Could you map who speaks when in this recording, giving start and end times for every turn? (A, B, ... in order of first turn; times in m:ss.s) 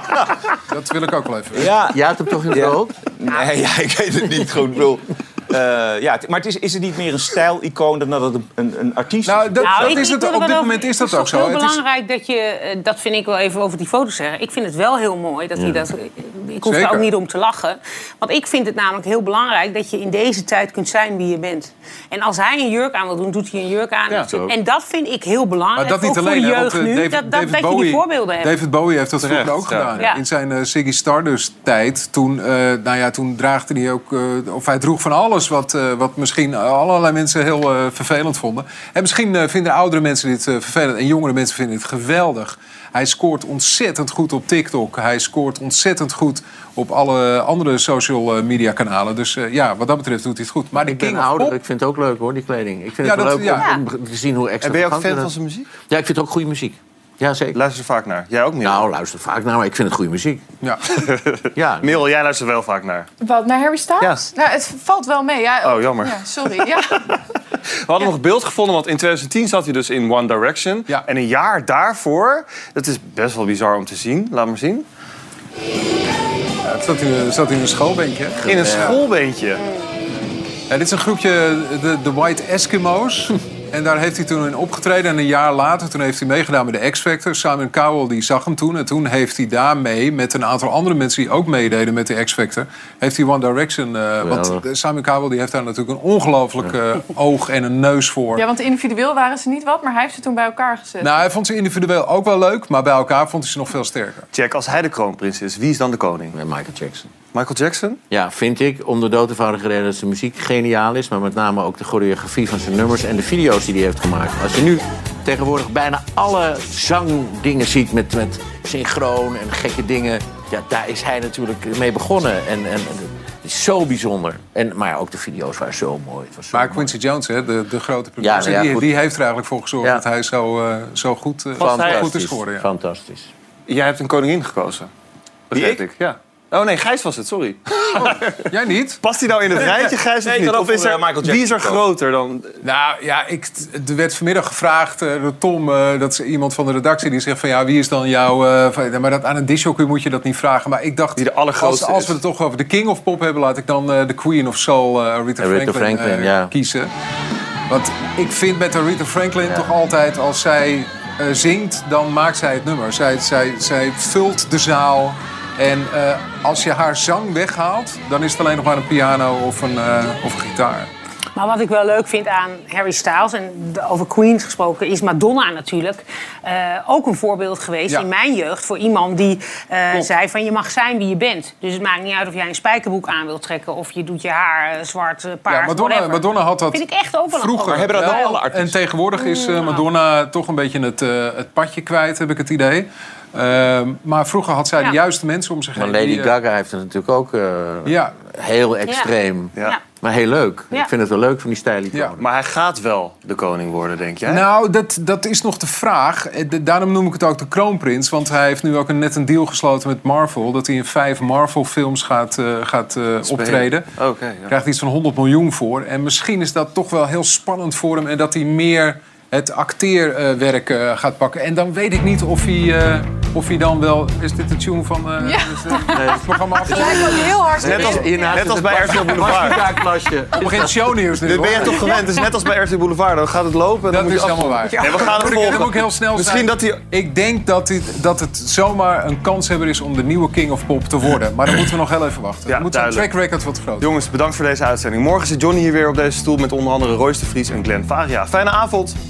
0:00.7-0:01.7 A
0:01.5-0:02.0 B
0:01.9-0:03.0 C
0:02.5-0:10.2 B
0:09.3-0:11.8 A
0:09.6-0:28.6 D
0:15.6-0:15.8 C
0:16.6-0:17.1 A
0:24.2-0:24.5 C
0:25.8-0:51.6 A
0:29.2-0:30.1 E
0:30.0-0:30.2 D
0:50.7-0:55.3 C
0:53.0-0:53.7 A
0:53.5-0:53.8 D
0:54.6-0:55.7 E
0:55.9-0:57.6 C
0:57.5-0:58.9 E
0:58.6-1:00.4 C
1:00.6-1:01.0 A
1:00.9-1:03.1 E
1:01.6-1:02.0 C
1:03.2-1:07.2 F
1:05.6-1:06.6 E
1:07.8-1:14.9 E
1:16.6-1:18.4 A
1:18.4-1:19.0 C
1:18.4-1:19.6 E
1:20.7-1:38.4 A
1:34.2-1:34.6 C
1:38.4-1:41.2 F
1:41.0-1:44.3 A
1:44.3-1:46.4 E
1:46.3-1:47.1 C
1:47.3-1:48.0 E
1:48.1-2:07.0 C
2:06.5-2:12.7 A
2:08.2-2:08.9 C
2:11.6-2:12.1 E
2:11.6-2:13.3 C
2:13.7-2:14.9 E
2:15.5-2:18.4 E
2:15.5-2:15.8 B
2:17.9-2:19.0 A
2:19.0-2:22.6 E
2:19.6-2:21.8 B
2:22.6-2:36.9 A
2:31.2-2:32.2 E
2:35.4-2:36.5 C
2:37.7-2:50.9 A
2:51.4-3:08.4 D
3:05.5-3:16.3 A
3:07.7-3:08.8 B
3:09.1-3:09.9 D
3:15.8-3:22.3 C
3:17.9-3:18.2 A
3:22.2-3:24.4 E
3:24.2-3:33.9 A
3:33.2-3:34.5 E
3:34.5-3:47.3 A
3:45.2-3:46.1 F
3:45.9-3:50.9 C
3:46.7-3:48.3 F
3:47.6-3:49.7 E
3:50.4-3:52.0 A
3:51.2-3:56.8 E
3:53.9-4:03.9 A
3:54.7-3:55.1 D
4:02.5-4:03.1 E
4:03.8-4:09.0 E